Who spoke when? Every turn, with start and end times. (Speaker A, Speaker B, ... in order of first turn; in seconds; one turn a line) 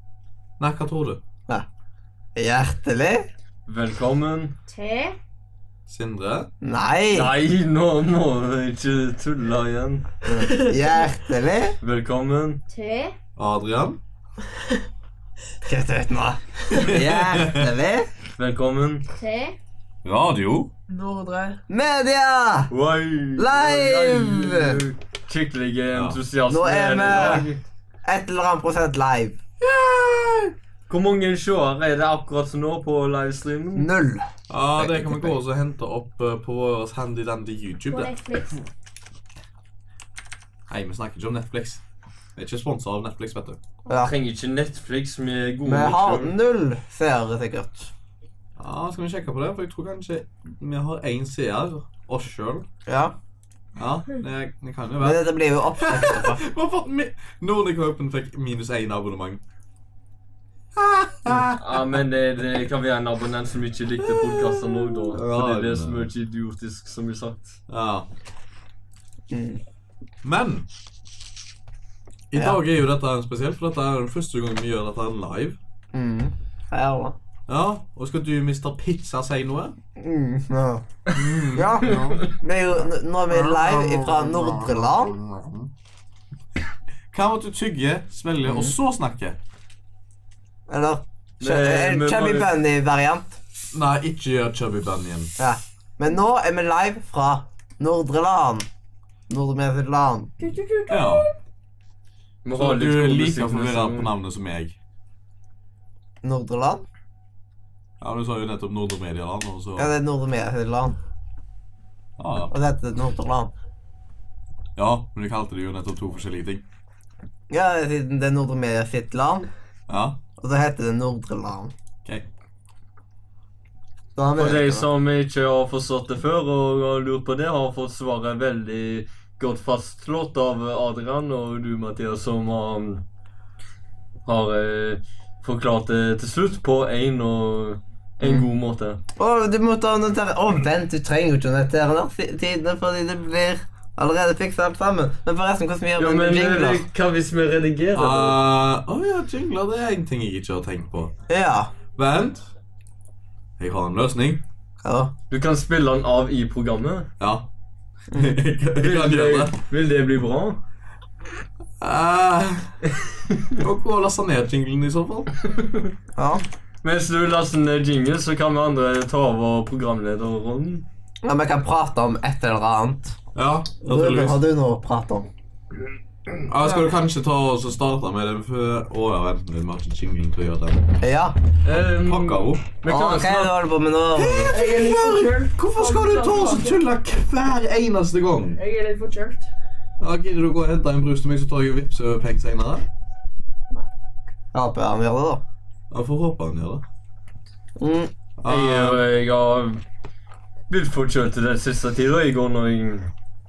Speaker A: 0.6-1.2
Speaker B: 2.4-3.3
Speaker C: 3.7-4.6
Speaker D: 4.7-5.2
Speaker A: 5.9-6.5
Speaker B: 6.6-7.3
Speaker C: 7.1-10.1
Speaker B: 10.2-11.8
Speaker C: 11.8-12.6
Speaker D: 12.7-13.2
Speaker A: 13.4-14.0
Speaker B: 15.7-18.1
Speaker A: 16.7-17.7
Speaker C: 18.4-19.1
Speaker D: 19.2-19.6
Speaker A: 20.1-20.7
Speaker E: 20.9-21.6
Speaker B: 21.7-22.7
Speaker C: 22.7-27.6
Speaker B: 23.4-24.8
Speaker A: 25.9-26.2
Speaker B: 26.5-27.5
Speaker A: 27.0-27.4
Speaker B: 28.1-29.4
Speaker A: 29.6-30.5
Speaker C: 30.9-33.9
Speaker B: 33.8-35.4
Speaker A: 34.5-38.1
Speaker D: 37.9-38.6
Speaker A: 40.7-41.8
Speaker A: 42.4-43.6
Speaker C: 43.9-46.3
Speaker B: 45.7-47.9
Speaker A: 48.6-52.7
Speaker B: 52.9-53.2
Speaker A: 53.8-59.4
Speaker B: 55.0-56.4
Speaker A: 60.8-61.8
Speaker C: 61.6-67.6
Speaker A: 64.1-66.1
Speaker A: 67.7-68.1
Speaker B: 69.3-69.6
Speaker A: 70.2-70.7
Speaker A: 72.3-75.6
Speaker B: 75.9-77.2
Speaker A: 77.5-79.8
Speaker B: 80.0-80.8
Speaker A: 81.2-82.2
Speaker B: 81.5-85.2
Speaker C: 81.8-82.3
Speaker A: 83.3-85.7
Speaker A: 87.1-89.4
Speaker B: 88.4-88.7
Speaker B: 90.7-93.4
Speaker C: 91.4-92.5
Speaker A: 93.7-95.3
Speaker B: 95.4-98.7
Speaker B: 99.3-100.3
Speaker D: 100.4-101.3
Speaker A: 100.9-101.3
Speaker C: 102.4-104.1
Speaker A: 102.5-104.8
Speaker B: 106.2-106.8
Speaker A: 108.0-109.9
Speaker B: 109.8-111.0
Speaker A: 112.2-112.5
Speaker B: 112.5-113.5
Speaker A: 114.8-116.7
Speaker B: 117.5-119.5
Speaker A: 119.9-120.2
Speaker B: 120.4-121.7
Speaker B: 124.2-124.9
Speaker C: 124.4-133.0
Speaker C: 134.3-139.0
Speaker B: 138.2-138.5
Speaker B: 139.2-146.9
Speaker C: 146.0-148.4
Speaker A: 148.0-151.1
Speaker B: 151.3-151.7
Speaker A: 152.0-152.4
Speaker A: 153.6-154.4
Speaker B: 154.8-155.1
Speaker C: 155.3-157.1
Speaker A: 157.2-157.5
Speaker B: 158.1-158.4
Speaker A: 158.1-159.6
Speaker C: 158.8-160.6
Speaker A: 161.8-162.8
Speaker A: 163.6-165.3
Speaker C: 165.5-165.9
Speaker B: 166.2-166.4
Speaker C: 166.8-170.9
Speaker B: 171.2-173.2
Speaker A: 173.3-174.4
Speaker B: 173.8-175.3
Speaker A: 176.4-180.8
Speaker B: 181.0-181.4
Speaker C: 181.7-183.5
Speaker A: 181.7-182.7
Speaker B: 182.9-184.6
Speaker A: 184.2-188.6
Speaker E: 184.5-186.8
Speaker E: 188.6-189.5
Speaker A: 190.0-192.8
Speaker B: 194.5-195.4
Speaker A: 195.9-196.8
Speaker B: 197.8-198.1
Speaker A: 198.4-199.0
Speaker C: 198.5-199.8
Speaker C: 200.7-203.1